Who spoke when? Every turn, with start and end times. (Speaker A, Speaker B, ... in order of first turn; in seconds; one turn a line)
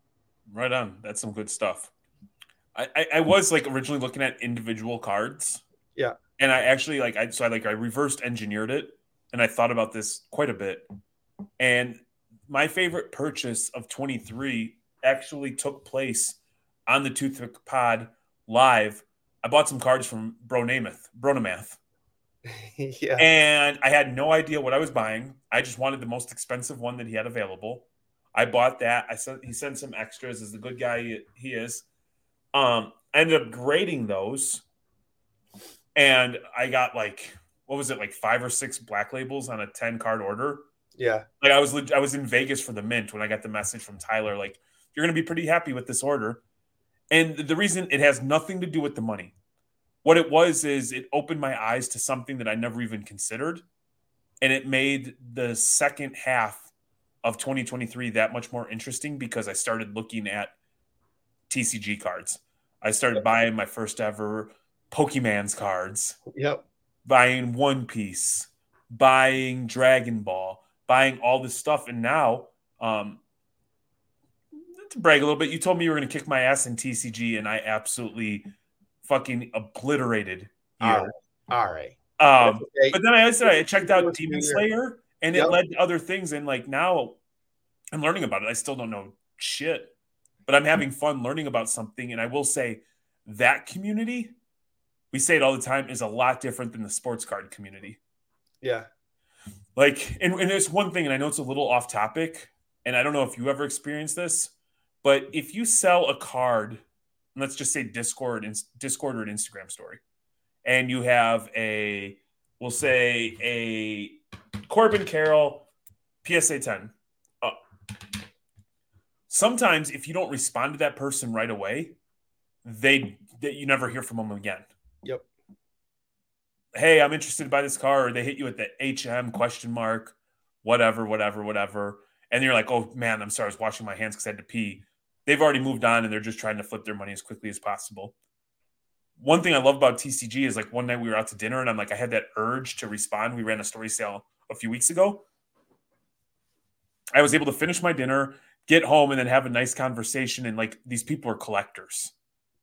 Speaker A: 0.5-1.9
Speaker A: 2.8-5.6
Speaker A: 6.4-10.8
Speaker A: 11.6-12.0
Speaker A: 12.5-21.8
Speaker B: 22.5-23.2
Speaker A: 23.2-31.9
Speaker A: 32.5-34.6
Speaker A: 36.0-40.6
Speaker B: 41.0-41.3
Speaker A: 41.4-46.4
Speaker A: 47.1-49.4
Speaker A: 50.0-53.6
Speaker A: 54.4-56.7
Speaker A: 57.2-60.5
Speaker A: 61.5-66.2
Speaker B: 66.3-66.7
Speaker A: 67.1-73.2
Speaker A: 74.8-78.5
Speaker A: 79.0-81.1
Speaker B: 80.8-84.6
Speaker A: 82.2-87.2
Speaker A: 87.9-89.9
Speaker A: 90.5-94.3
Speaker A: 95.1-98.0
Speaker B: 98.6-98.9
Speaker A: 99.8-104.5
Speaker A: 105.0-106.8
Speaker A: 107.3-110.0
Speaker A: 110.7-115.7
Speaker A: 116.2-117.6
Speaker A: 119.3-122.0
Speaker A: 122.6-124.7
Speaker A: 126.7-138.2
Speaker A: 139.2-145.2
Speaker A: 147.2-152.1